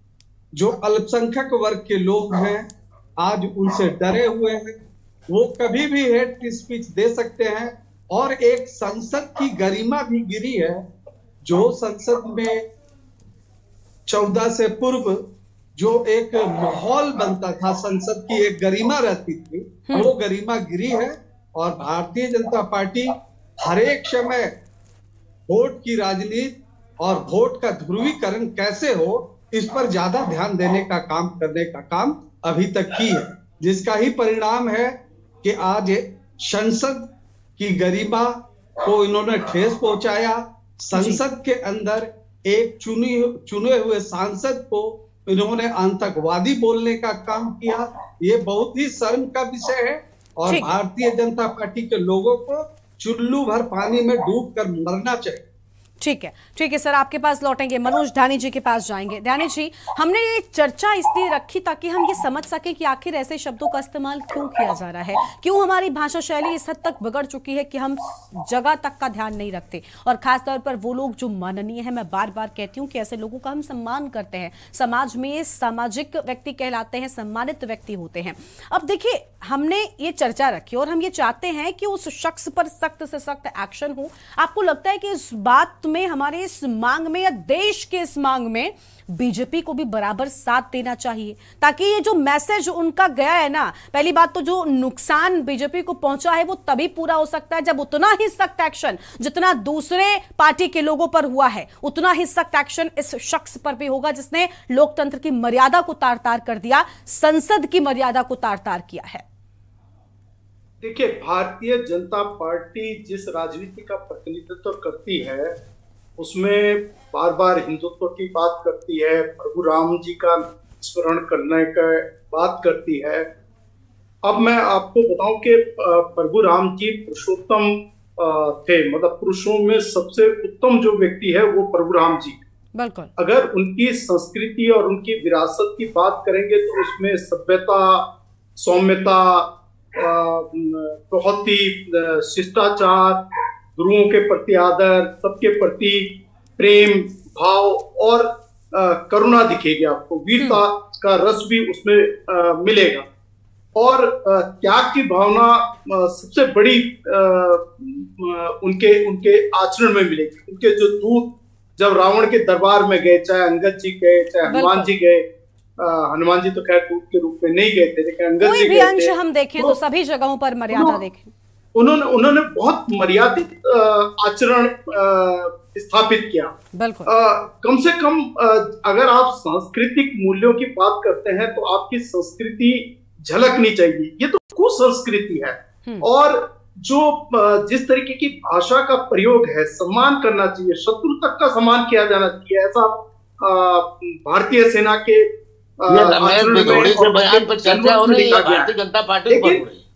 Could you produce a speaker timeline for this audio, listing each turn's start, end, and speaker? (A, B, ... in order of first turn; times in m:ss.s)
0:00.5-0:02.7 A
0:03.2-0:10.8 A
0:11.4-0:12.6 A
0:14.1-0:15.2 A
0:15.8-0:24.5 A
0:25.5-0:55.4 A
0:56.0-1:49.2 B
1:50.8-1:55.6 C
1:56.2-2:03.3 C
2:04.2-2:12.4 C
2:12.7-2:13.1 B
2:13.2-2:33.0 C
2:33.8-2:45.2 C
2:44.5-2:44.9 B
2:45.8-2:49.8 C
2:48.4-2:51.3 B
2:50.7-2:51.0 C
2:51.8-2:56.5 C
2:56.7-2:57.1 B
2:57.1-3:15.3 C
3:15.8-3:18.7 C
3:15.9-3:19.8 D
3:19.3-3:19.6 C